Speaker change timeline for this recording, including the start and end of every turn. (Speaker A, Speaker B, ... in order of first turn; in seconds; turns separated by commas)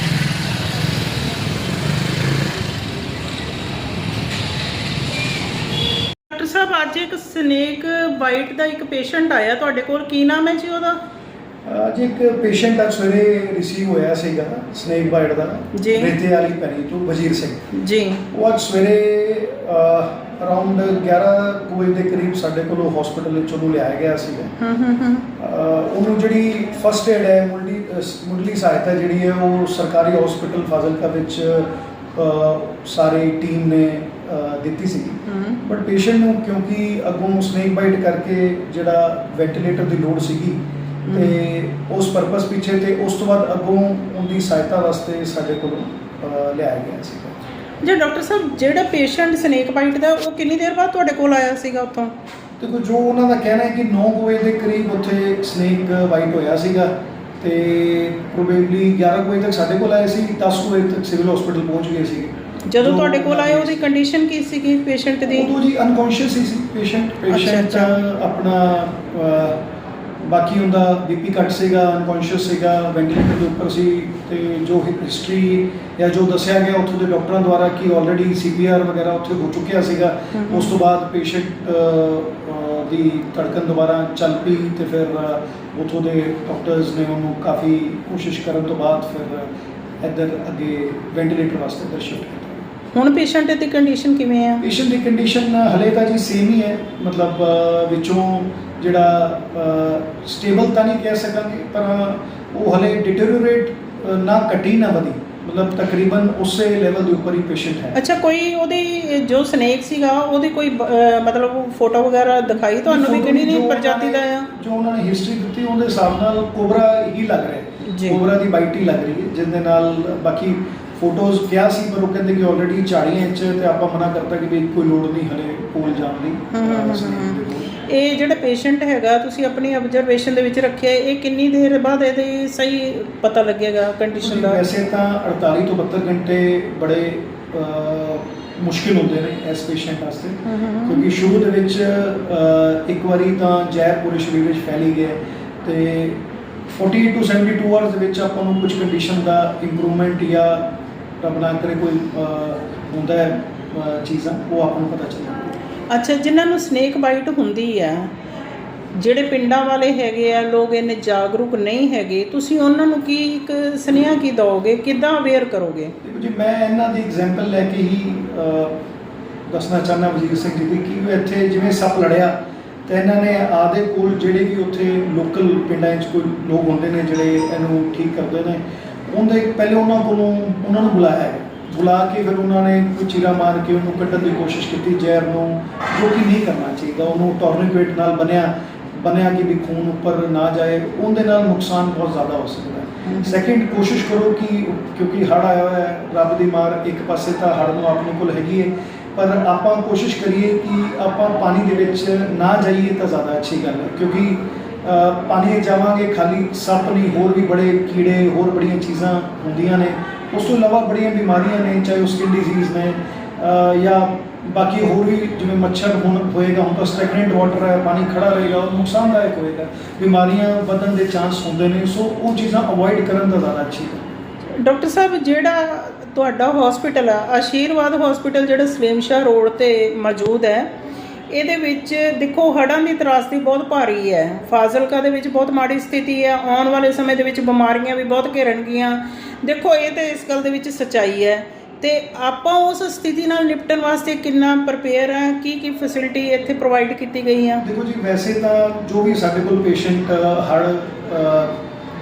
Speaker A: 6.3-11.0, Speaker B: 11.7-17.6, Speaker A: 15.7-16.1, Speaker A: 17.7-18.2, Speaker B: 18.3-24.5, Speaker A: 24.6-25.3, Speaker B: 25.4-40.6, Speaker A: 35.3-35.6, Speaker A: 41.1-41.4, Speaker B: 41.1-47.4, Speaker A: 47.8-52.1, Speaker B: 52.6-63.9, Speaker A: 62.7-65.5, Speaker B: 65.3-69.6, Speaker A: 67.3-68.0, Speaker B: 70.2-89.5, Speaker A: 80.3-80.7, Speaker B: 90.0-92.6, Speaker A: 92.9-94.7, Speaker B: 94.6-108.0, Speaker A: 108.0-114.5, Speaker B: 112.9-127.7, Speaker A: 117.8-118.2, Speaker A: 126.5-134.6, Speaker B: 134.2-146.2, Speaker A: 140.5-141.1, Speaker B: 146.7-150.6, Speaker B: 151.2-155.5, Speaker A: 155.9-158.1, Speaker A: 158.9-165.9, Speaker B: 166.0-168.7, Speaker B: 169.5-172.3, Speaker B: 172.9-224.1, Speaker A: 193.1-193.3, Speaker A: 224.6-230.7, Speaker A: 231.3-247.6, Speaker B: 247.6-251.5